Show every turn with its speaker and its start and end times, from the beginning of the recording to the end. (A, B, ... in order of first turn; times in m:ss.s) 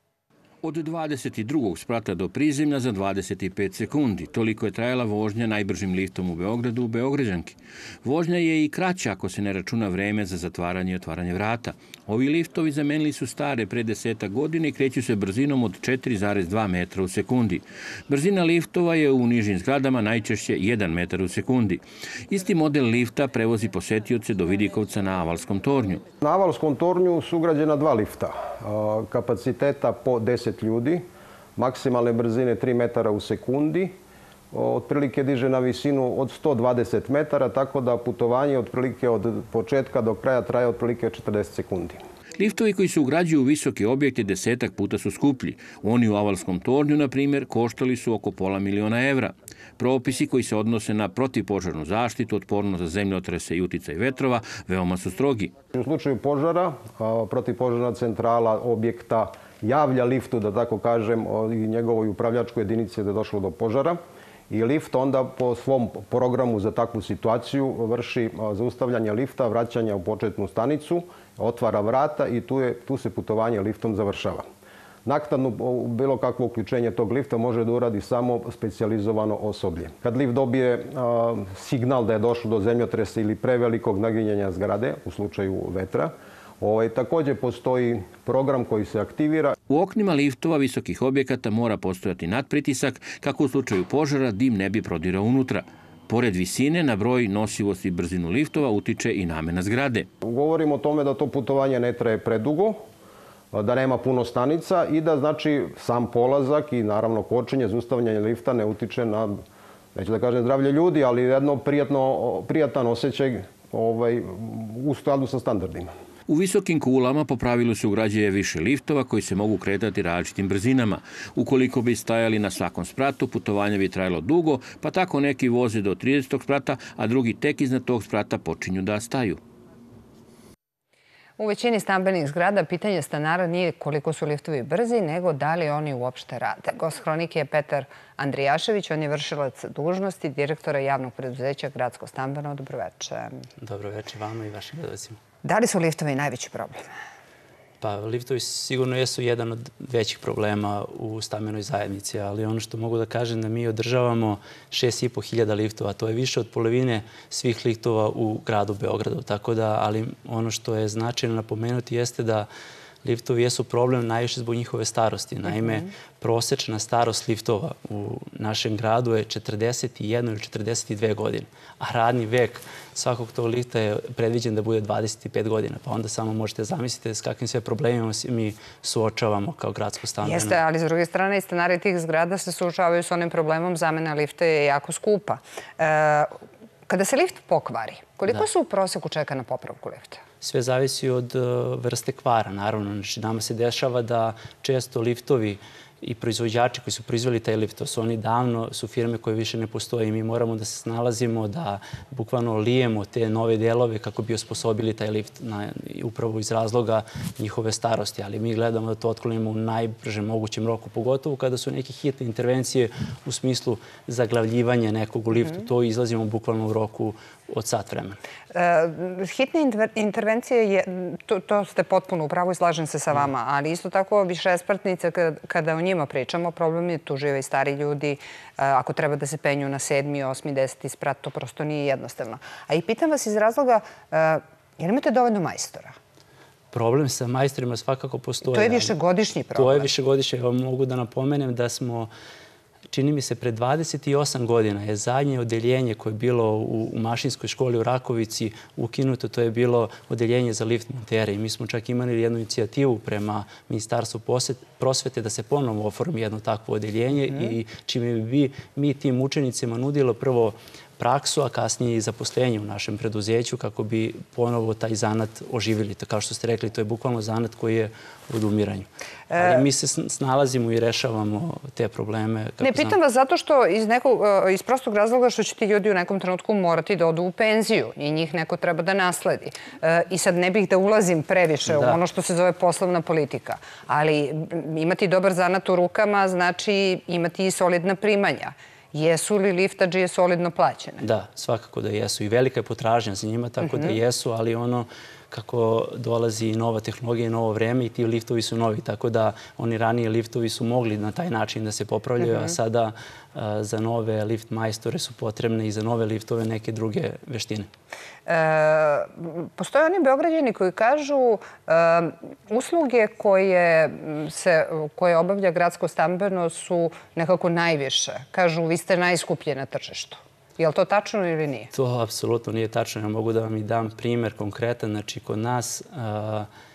0:00.6-0:26.0 A
0:26.2-0:31.0 B
0:31.6-0:34.0 B
0:34.5-0:42.0 B
0:42.4-0:55.5 A
0:55.7-1:14.4 B
1:15.0-1:29.5 B
1:29.7-1:40.1 A
1:40.2-1:42.8 B
1:43.5-1:49.4 B
1:49.9-1:55.9 B
1:56.3-2:09.4 A
2:11.4-2:23.4 C
2:23.6-2:25.2 D
2:25.4-2:26.9 C
2:27.8-2:42.5 D
2:43.0-3:00.6 D
2:45.5-2:45.9 C
3:00.2-3:06.3 C
3:06.9-3:10.2 C
3:10.4-3:38.2 D
3:38.5-3:55.9 C
3:56.7-3:58.9 D
3:58.5-3:59.9 C
3:59.5-4:02.1 D
4:02.9-4:32.9 D
4:29.3-4:29.6 C
4:32.6-4:51.0 C
4:41.7-4:42.0 D
4:51.0-5:07.7 D
4:53.6-4:54.0 C
5:02.2-5:02.5 C
5:08.3-5:21.7 C
5:21.7-5:26.5 D